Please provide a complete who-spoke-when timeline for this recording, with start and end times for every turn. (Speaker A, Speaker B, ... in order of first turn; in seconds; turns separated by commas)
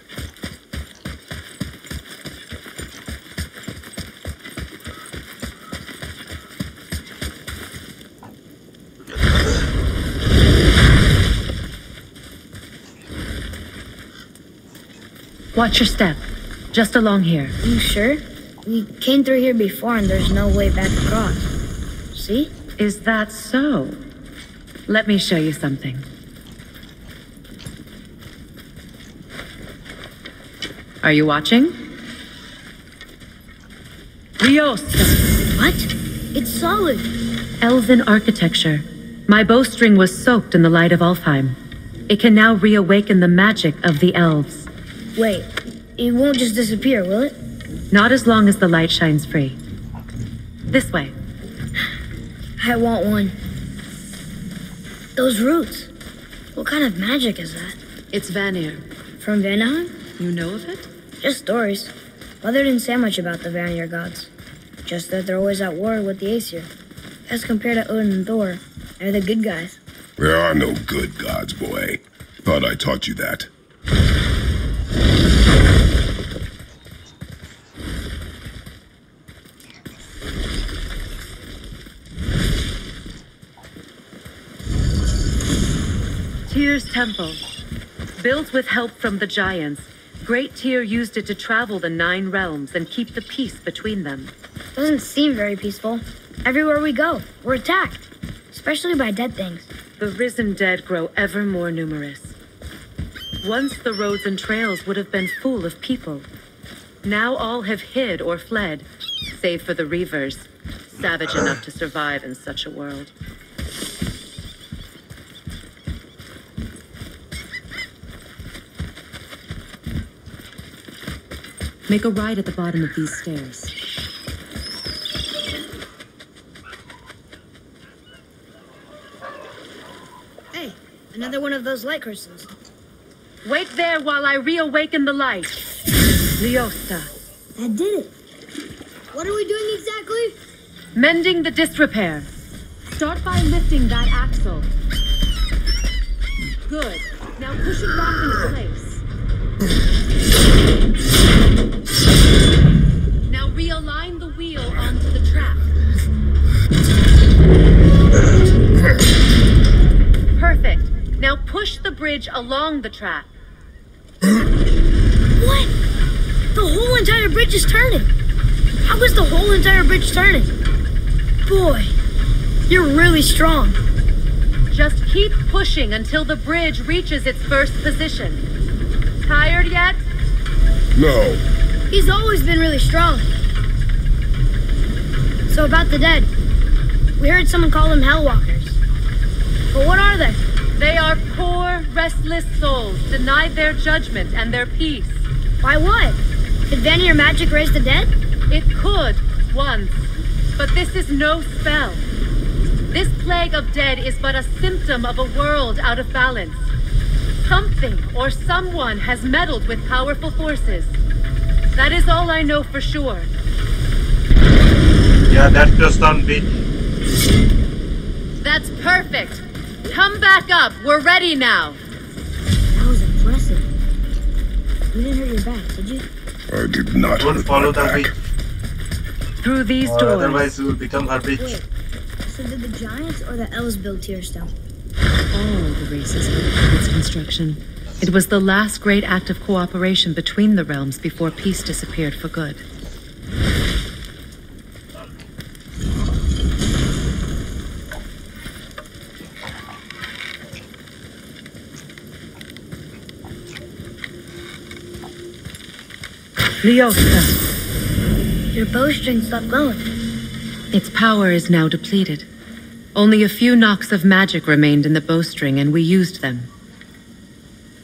Speaker A: 15.6-17.6, Speaker B: 17.6-21.5, Speaker B: 22.1-22.5, Speaker A: 22.8-24.0, Speaker A: 24.9-26.1, Speaker A: 31.0-31.8, Speaker A: 34.4-35.3, Speaker B: 35.6-37.1, Speaker A: 37.6-41.6, Speaker A: 42.1-44.7, Speaker B: 45.1-47.4, Speaker A: 47.9-49.6, Speaker A: 50.7-51.1, Speaker B: 52.6-53.4, Speaker B: 55.2-55.9, Speaker B: 56.5-57.8, Speaker A: 58.1-58.9, Speaker B: 59.2-60.0, Speaker A: 60.2-60.9, Speaker B: 61.2-64.3, Speaker B: 64.8-66.7, Speaker B: 67.3-69.8, Speaker C: 70.2-73.5, Speaker A: 86.5-87.4, Speaker A: 88.2-94.3, Speaker B: 94.8-99.7, Speaker A: 100.0-102.4, Speaker A: 103.4-106.3, Speaker A: 107.0-113.1, Speaker A: 121.9-123.7, Speaker B: 130.5-132.5, Speaker A: 133.4-135.6, Speaker A: 136.4-137.1, Speaker B: 137.6-138.1, Speaker B: 139.1-140.4, Speaker A: 140.9-142.3, Speaker A: 142.9-144.7, Speaker A: 146.7-149.0, Speaker A: 153.3-155.7, Speaker A: 160.4-163.3, Speaker B: 165.4-165.7, Speaker B: 166.6-168.1, Speaker B: 168.8-170.6, Speaker B: 171.4-171.9, Speaker B: 172.7-173.8, Speaker A: 174.7-178.4, Speaker A: 179.2-180.0, Speaker C: 180.9-181.4, Speaker B: 181.9-183.3, Speaker B: 185.5-186.3, Speaker B: 187.2-188.8, Speaker B: 189.7-190.4, Speaker A: 190.8-195.2, Speaker B: 195.6-198.1, Speaker A: 198.5-200.0, Speaker A: 200.6-202.0, Speaker A: 202.9-206.6, Speaker A: 207.4-210.9, Speaker A: 211.7-213.3, Speaker D: 215.3-216.5, Speaker A: 218.4-221.8, Speaker B: 222.7-223.7, Speaker B: 224.9-226.1, Speaker C: 226.5-228.1, Speaker D: 227.2-228.1, Speaker A: 229.4-230.5, Speaker D: 229.8-231.6, Speaker B: 231.4-231.7, Speaker B: 232.3-234.5, Speaker A: 235.3-242.6, Speaker A: 256.6-257.4, Speaker B: 258.5-259.9, Speaker A: 260.7-262.3, Speaker A: 262.9-266.5